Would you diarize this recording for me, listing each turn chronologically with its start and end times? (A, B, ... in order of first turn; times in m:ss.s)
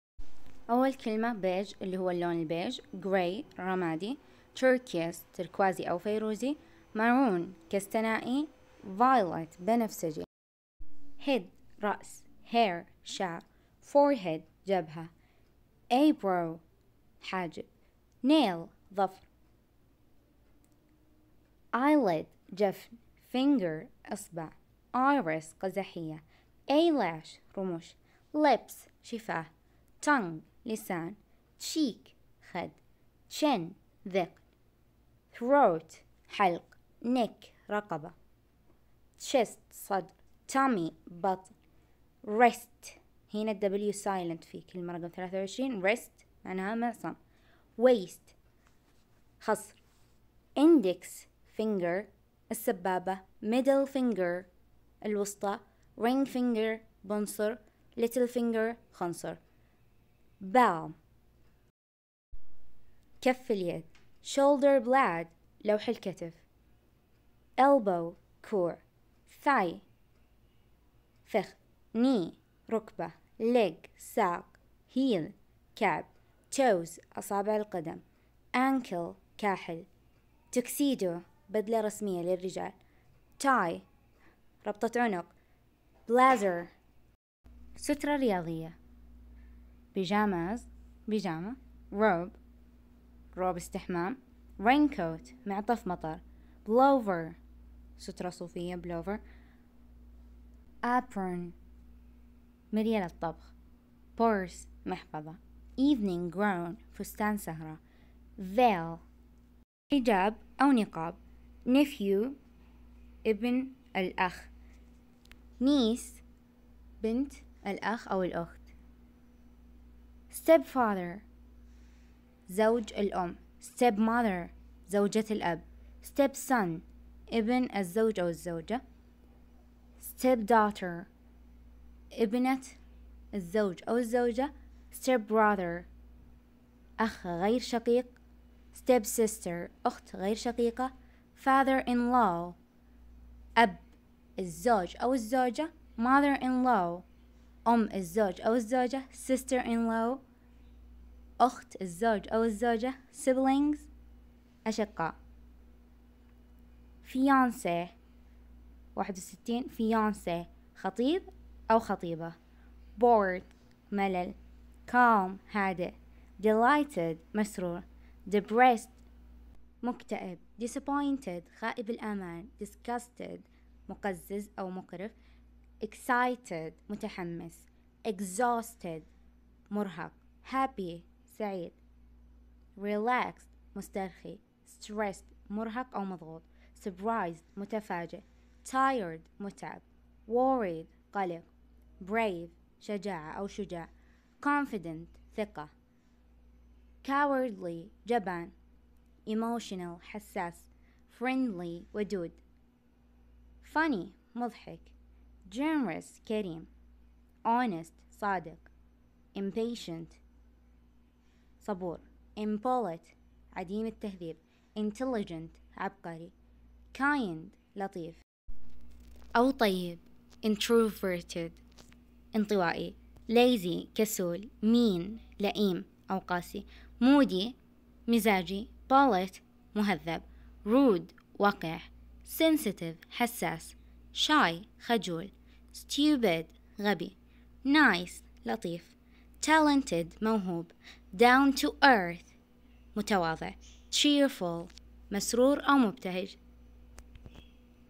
0:00.7-0:10.3 A
0:11.2-0:15.1 A
0:15.9-0:16.6 A
0:17.2-0:17.7 A
0:18.2-0:19.3 A
0:21.7-0:29.5 A
0:30.0-0:32.8 A
0:33.3-0:34.4 A
0:35.3-0:38.2 A
0:39.2-0:41.5 A
0:42.2-0:47.2 A
0:47.8-0:48.4 A
0:49.4-0:49.8 A
0:50.6-0:54.5 A
0:55.0-0:59.4 A
1:00.4-1:01.0 A
1:03.2-1:06.4 A
1:07.6-1:09.8 A
1:11.3-1:19.9 A
1:20.5-1:22.8 A
1:23.4-1:23.8 A
1:24.6-1:25.3 A
1:26.1-1:26.7 A
1:27.8-1:28.8 A
1:29.9-1:32.4 A
1:33.3-1:37.4 A
1:38.0-1:39.2 A
1:40.8-1:41.6 A
1:42.7-1:43.5 A
1:44.2-1:47.8 A
1:48.4-1:49.0 A
1:49.9-1:52.4 A
1:53.2-1:54.5 A
1:55.6-1:56.2 A
1:57.0-1:58.7 A
2:00.3-2:01.3 A
2:02.5-2:08.8 A
2:10.0-2:11.1 A
2:12.1-2:12.8 A
2:13.3-2:15.9 A
2:17.0-2:18.1 A
2:18.7-2:22.6 A
2:23.6-2:23.8 A
2:24.4-2:27.1 A
2:27.6-2:30.2 A
2:31.4-2:33.9 A
2:34.6-2:35.2 A
2:37.0-2:38.0 A
2:39.0-2:42.4 A
2:43.0-2:44.4 A
2:44.9-2:49.0 A
2:49.8-2:55.2 A
2:55.8-2:59.1 A
2:59.7-3:01.8 A
3:02.8-3:11.5 A
3:12.0-3:15.7 A
3:17.0-3:18.5 A
3:19.2-3:22.4 A
3:23.6-3:24.9 A
3:25.5-3:26.7 A
3:27.4-3:28.7 A
3:29.3-3:30.2 A
3:31.6-3:36.3 A
3:36.9-3:38.2 A
3:39.4-3:41.6 A
3:42.3-4:02.3 A
4:03.0-4:06.4 A